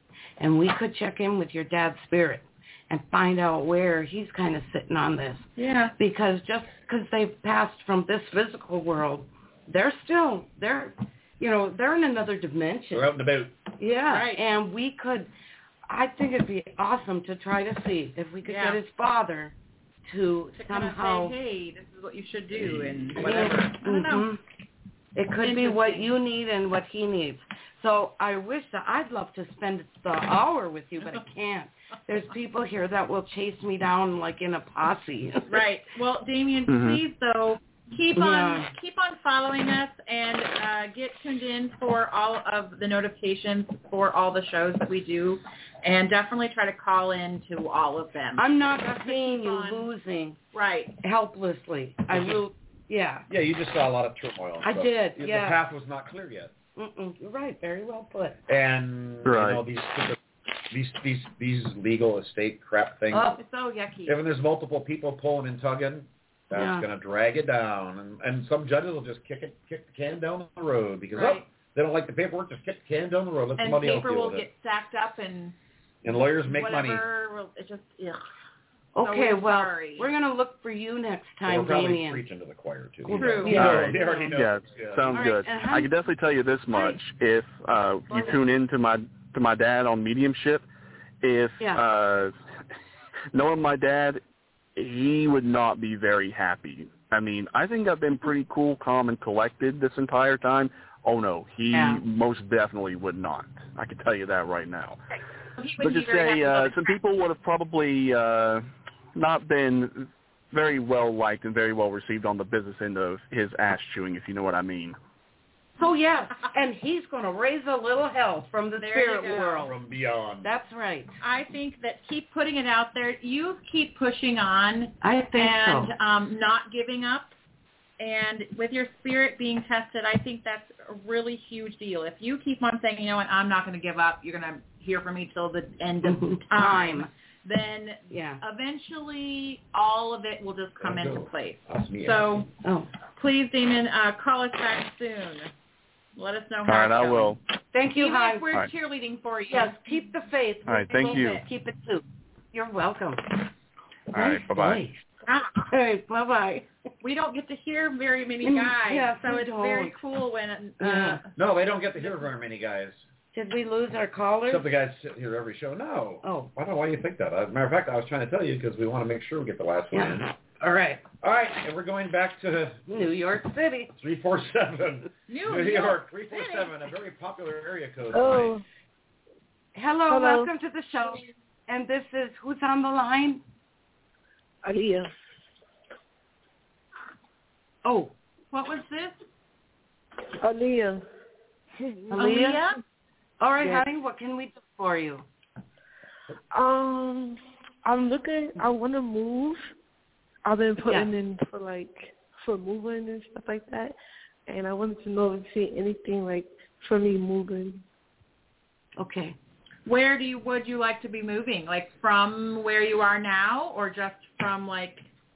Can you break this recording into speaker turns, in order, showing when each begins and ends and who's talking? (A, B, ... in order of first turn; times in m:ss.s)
0:00.4-0:13.1 A
0:05.6-0:05.9 B
0:12.9-0:13.6 C
0:13.8-0:15.3 A
0:14.0-0:14.4 B
0:15.9-0:19.5 A
0:18.4-0:18.8 B
0:20.1-0:21.3 A
0:20.6-0:24.3 B
0:22.5-0:23.4 C
0:23.2-0:24.4 A
0:25.2-0:35.6 A
0:25.4-0:26.1 B
0:35.5-0:49.9 B
0:36.7-0:37.0 D
0:38.1-0:38.7 A
0:48.4-0:50.4 A
0:50.5-0:50.9 B
0:51.0-0:53.3 A
0:52.1-0:52.4 C
0:53.3-0:56.5 C
0:54.6-0:55.6 A
0:56.8-0:58.4 A
0:58.5-1:00.2 C
0:59.2-0:59.6 D
1:00.7-1:03.3 C
1:03.1-1:03.4 A
1:03.4-1:04.2 B
1:04.0-1:14.5 C
1:06.5-1:06.9 A
1:11.1-1:11.4 B
1:13.6-1:15.5 B
1:16.0-1:17.0 C
1:16.5-1:18.2 B
1:18.9-1:22.2 A
1:19.0-1:20.1 B
1:21.4-1:25.2 C
1:23.1-1:24.0 A
1:23.1-1:24.4 B
1:23.6-1:30.6 D
1:25.1-1:25.9 A
1:31.2-1:32.3 D
1:33.3-1:34.2 D
1:34.8-1:45.0 D
1:41.7-1:42.0 A
1:45.6-1:46.9 B
1:45.8-1:48.6 D
1:49.2-1:55.0 D
1:55.8-1:59.7 A
1:58.8-1:59.7 B
1:59.6-2:00.5 C
2:00.4-2:01.1 A
2:01.2-2:07.3 B
2:05.0-2:05.9 A
2:08.0-2:22.5 B
2:16.0-2:17.1 A
2:18.1-2:18.4 A
2:20.8-2:22.5 C
2:22.6-2:22.9 A
2:23.2-2:25.5 B
2:26.2-2:30.1 B
2:26.6-2:27.4 D
2:27.7-2:28.6 A
2:29.5-2:33.5 A
2:30.7-2:31.4 D
2:30.9-2:31.4 B
2:34.1-2:34.8 D
2:34.1-2:35.0 A
2:35.3-2:35.6 B
2:35.6-2:36.7 A
2:37.0-2:41.3 B
2:38.4-2:40.0 A
2:40.8-2:41.2 A
2:41.4-2:43.0 C
2:43.3-2:44.6 A
2:44.5-2:50.3 C
2:46.2-2:46.5 A
2:49.9-2:51.0 A
2:51.2-2:52.9 C
2:52.9-2:53.9 A
2:54.0-2:58.6 C
2:55.3-2:56.8 B
2:58.1-2:58.6 E
2:59.7-3:03.4 A
3:00.1-3:00.5 E
3:04.6-3:05.1 E
3:07.8-3:08.1 A
3:08.5-3:09.2 B
3:10.4-3:11.0 E
3:11.8-3:12.3 E
3:12.1-3:12.6 A
3:12.1-3:12.8 B
3:13.4-3:15.2 A
3:16.5-3:19.6 E
3:20.4-3:23.9 E
3:20.8-3:21.1 A
3:24.5-3:27.8 E
3:29.0-3:29.4 A
3:29.8-3:35.0 B